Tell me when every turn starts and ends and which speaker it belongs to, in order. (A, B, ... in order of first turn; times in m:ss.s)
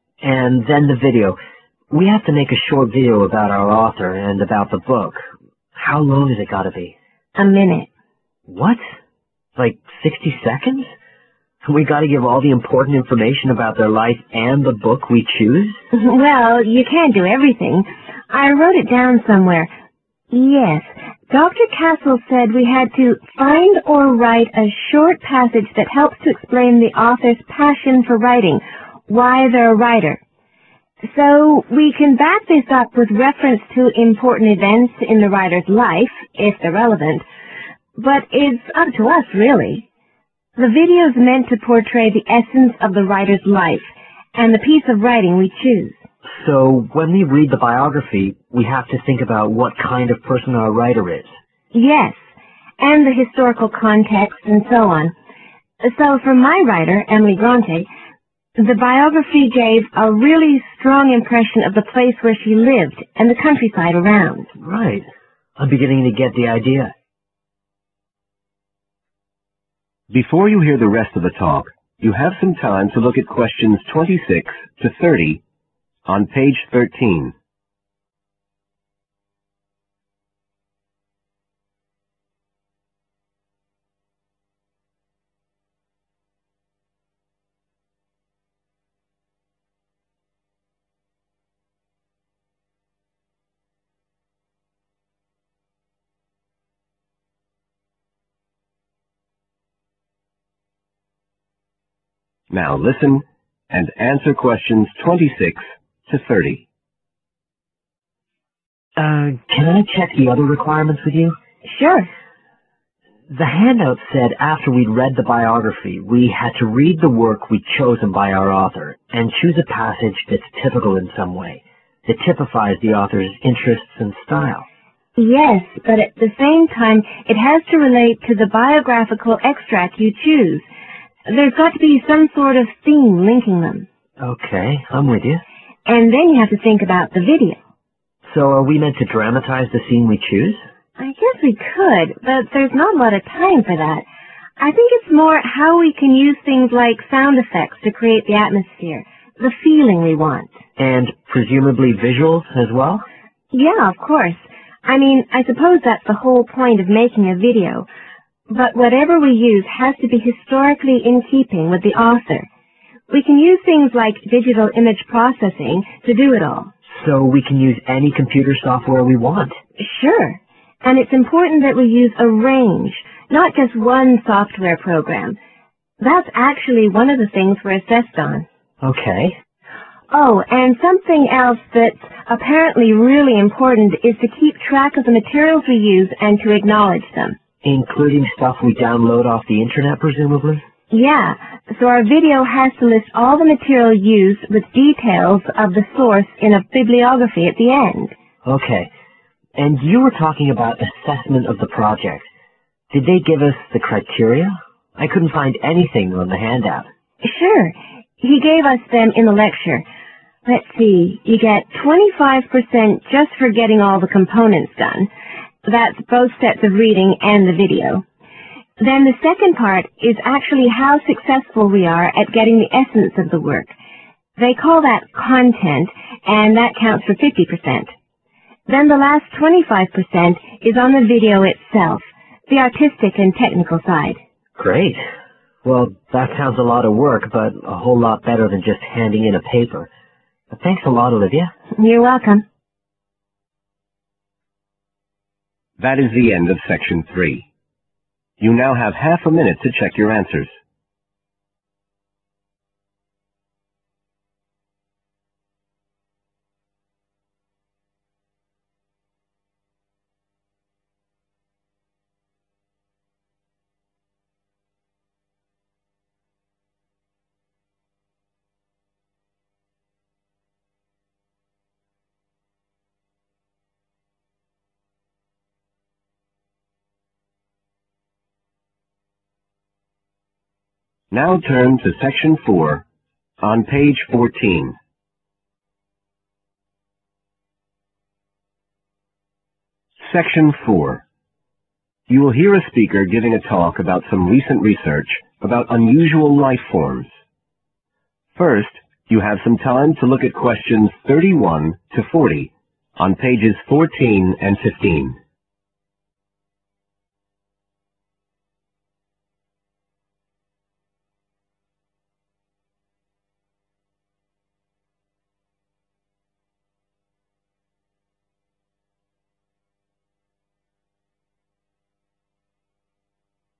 0:00.2-0:01.4 A
0:01.9-0:05.2 A
0:05.8-0:06.9 A
0:07.4-0:07.9 B
0:08.5-0:08.8 A
0:09.6-0:10.9 A
0:11.6-0:15.8 A
0:15.9-0:19.7 B
0:20.3-0:30.2 B
0:31.0-0:37.2 B
0:38.0-0:39.8 B
0:40.6-0:46.0 B
0:46.3-0:51.3 A
0:51.7-0:52.2 B
0:52.8-0:55.1 B
0:55.8-0:57.9 B
0:58.6-1:04.5 B
1:04.6-1:05.0 A
1:05.6-1:06.9 A
1:10.1-1:15.4 C
1:16.0-1:17.3 C
1:42.5-1:46.6 C
1:49.0-1:51.4 A
1:51.6-1:52.1 B
1:53.3-2:04.6 A
2:05.2-2:10.6 B
2:11.2-2:13.8 B
2:14.2-2:15.4 A
2:15.8-2:17.6 B
2:18.3-2:20.6 A
2:21.0-2:24.0 B
2:24.6-2:30.5 B
2:30.8-2:33.0 A
2:33.5-2:37.8 B
2:38.5-2:42.5 B
2:43.1-2:46.7 B
2:47.0-2:49.6 A
2:49.8-2:55.4 B
2:56.0-2:58.4 B
2:58.8-2:59.4 A
3:00.1-3:07.4 B
3:07.6-3:10.6 A
3:10.9-3:18.1 B
3:18.4-3:18.9 A
3:19.6-3:22.3 A
3:22.9-3:26.9 A
3:27.2-3:29.8 B
3:30.4-3:35.1 B
3:35.6-3:38.0 B
3:38.8-3:43.7 B
3:44.4-3:47.9 B
3:48.7-3:54.2 B
3:54.6-3:55.0 A
3:55.6-3:59.9 A
4:00.5-4:01.5 A
4:01.8-4:02.4 B
4:05.8-4:07.4 C
4:08.4-4:10.6 C
4:41.1-4:42.8 C
4:43.4-4:44.8 C
4:50.0-4:51.0 C
4:52.1-4:57.1 C
4:58.3-5:05.2 C